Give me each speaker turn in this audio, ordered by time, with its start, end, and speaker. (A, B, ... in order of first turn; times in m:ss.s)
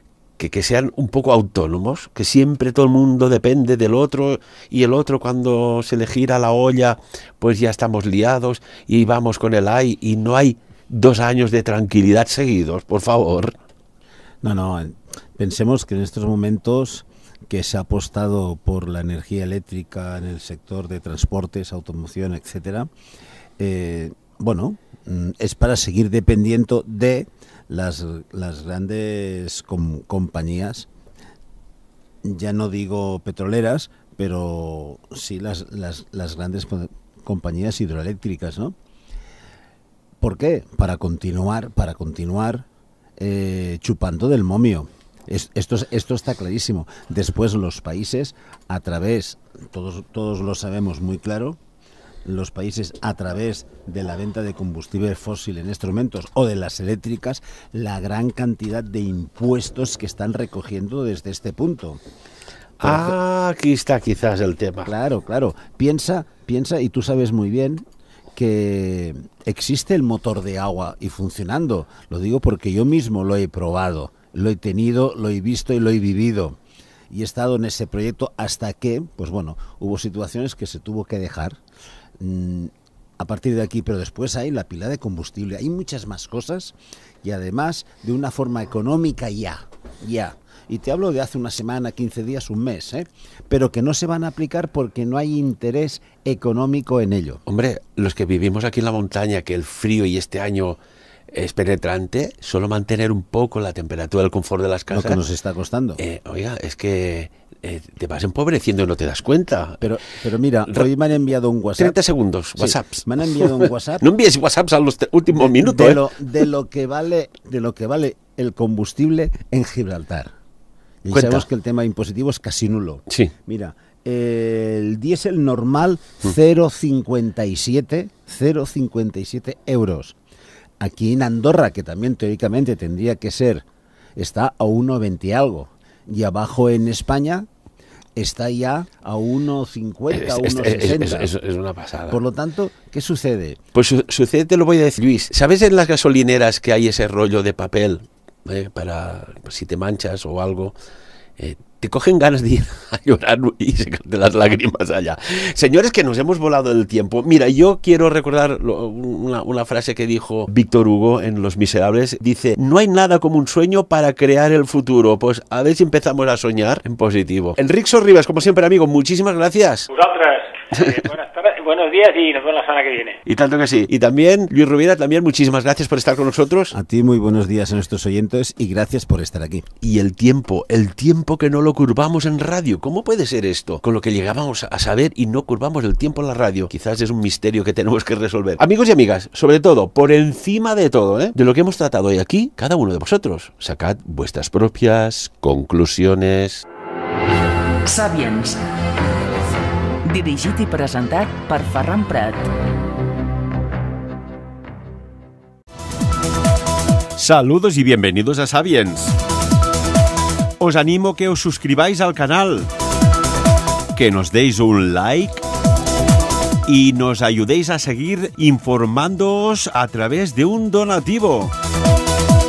0:00.4-0:13.5 A
0:14.4-0:22.9 B
0:23.6-0:30.9 B
0:32.2-0:38.8 B
0:40.2-0:42.7 B
0:43.2-0:51.6 B
0:52.2-1:02.0 B
1:02.8-1:03.2 B
1:02.8-1:04.9 A
1:04.9-1:07.8 B
1:08.4-1:16.6 B
1:17.1-1:21.6 B
1:22.2-1:37.4 B
1:37.5-1:40.8 A
1:41.3-1:45.2 A
1:44.9-1:46.0 B
1:46.0-1:49.8 A
1:49.8-1:52.0 B
1:51.8-1:56.2 A
1:52.6-1:54.0 B
1:55.3-2:00.3 B
2:01.0-2:10.2 B
2:01.1-2:01.5 A
2:10.8-2:13.6 B
2:14.2-2:17.5 B
2:18.2-2:21.3 B
2:20.1-2:22.2 A
2:22.1-2:23.6 B
2:23.8-2:30.7 A
2:31.4-2:49.9 A
2:49.9-2:53.2 C
2:53.3-2:56.8 A
2:56.7-2:59.7 B
2:59.8-3:16.6 A
3:17.8-3:18.6 D
3:20.0-3:22.5 D
3:27.2-3:29.2 A
3:30.6-3:32.7 A
3:33.9-3:35.4 A
3:36.7-3:41.5 A